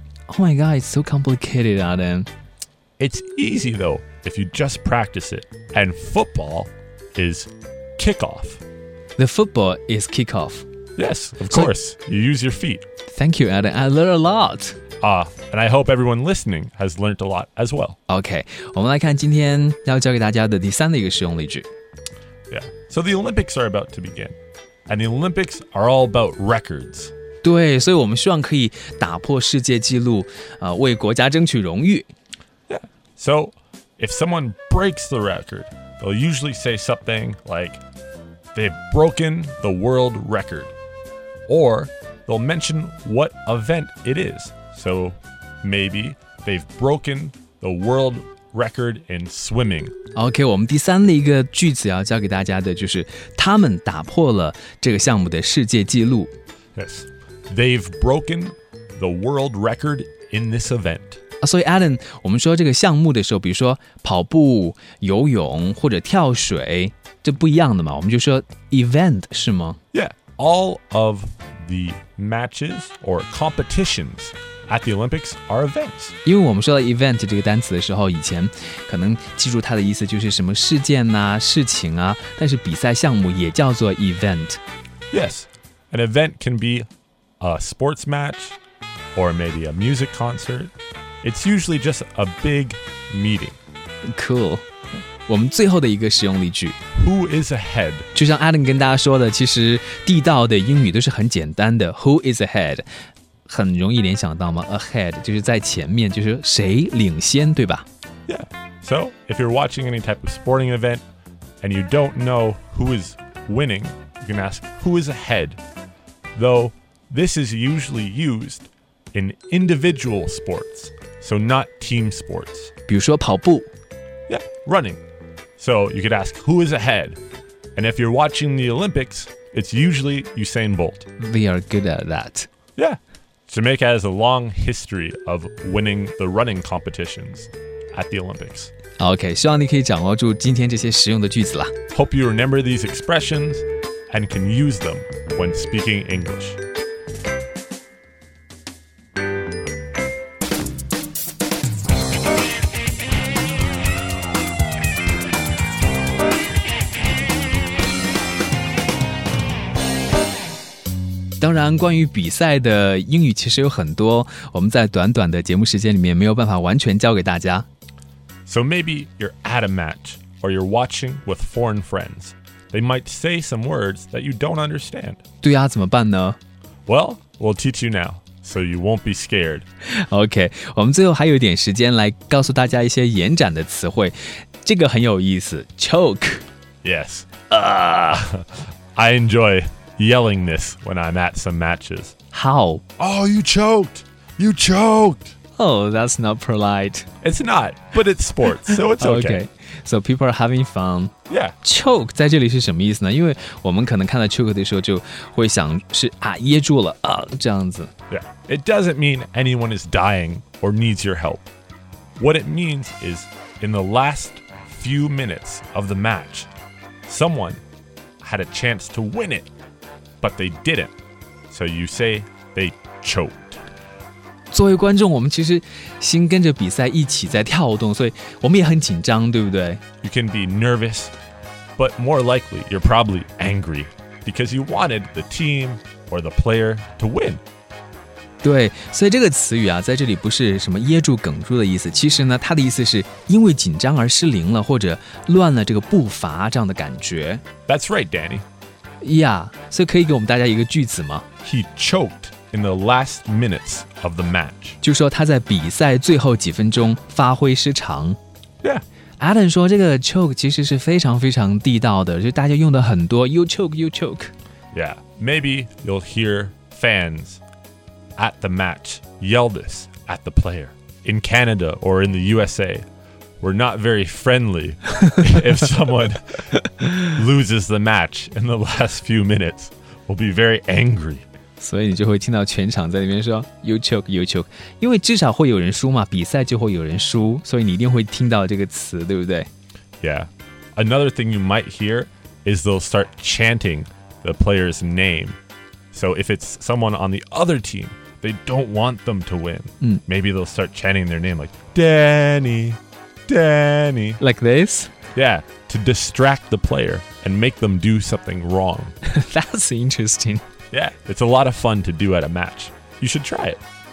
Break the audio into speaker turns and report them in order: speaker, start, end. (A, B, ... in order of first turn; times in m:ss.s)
0:00.3-0:02.3 A
0:03.0-0:08.6 B
0:09.2-0:10.6 A
0:11.0-0:12.8 B
0:13.1-0:14.8 A
0:15.0-0:18.0 B
0:18.1-0:21.7 A
0:22.5-0:24.4 B
0:24.9-0:27.1 B
0:27.4-0:32.1 A
0:32.7-0:37.8 B
0:38.5-0:40.7 B
0:41.5-0:49.9 B
0:50.1-0:56.3 A
0:56.8-1:01.2 B
1:01.4-1:09.8 A
1:09.9-1:16.1 B
1:16.2-1:24.6 A
1:25.1-1:26.9 B
1:27.4-1:28.6 B
1:29.1-1:33.6 B
1:34.1-1:34.6 A
1:35.3-1:36.8 A
1:36.9-1:38.1 B
1:38.1-1:42.8 A
1:43.5-1:47.8 A
1:48.3-1:51.0 B
1:51.6-1:55.6 B
1:56.3-2:02.7 B
2:02.9-2:03.7 A
2:04.3-2:05.0 B
2:05.6-2:07.2 B
2:07.8-2:11.1 B
2:11.2-2:12.5 A
2:12.8-2:18.7 B
2:19.0-2:21.7 A
2:21.9-2:26.6 B
2:41.4-2:47.6 A
2:48.4-2:55.2 B
2:55.4-2:56.4 A
2:56.9-2:59.6 B
2:59.8-3:06.4 A
3:06.8-3:12.1 B
3:12.3-3:12.8 A
3:13.0-3:15.3 B
3:15.6-3:17.1 A
3:17.2-3:19.4 B
3:18.7-3:27.9 A
3:21.3-3:21.5 B
3:28.1-3:31.5 B
3:32.2-3:36.5 B
3:37.0-3:37.6 B
3:38.2-3:39.5 B
3:40.2-3:40.9 B
3:41.5-3:43.6 B
3:44.5-3:49.8 A
3:50.0-3:51.1 B
3:51.8-3:57.4 B
3:58.4-4:07.4 A
4:07.7-4:08.4 B
4:09.0-4:11.2 A
4:11.4-4:14.8 B
4:14.8-4:18.2 A
4:19.2-4:24.3 A
4:24.7-4:27.4 B
4:28.2-4:32.8 B
4:33.4-4:41.2 B
4:41.6-4:49.5 A
4:50.0-4:55.4 B
4:55.9-5:04.2 B
5:04.2-5:04.9 A
5:05.1-5:08.9 B
5:09.0-5:10.4 A
5:10.7-5:13.6 B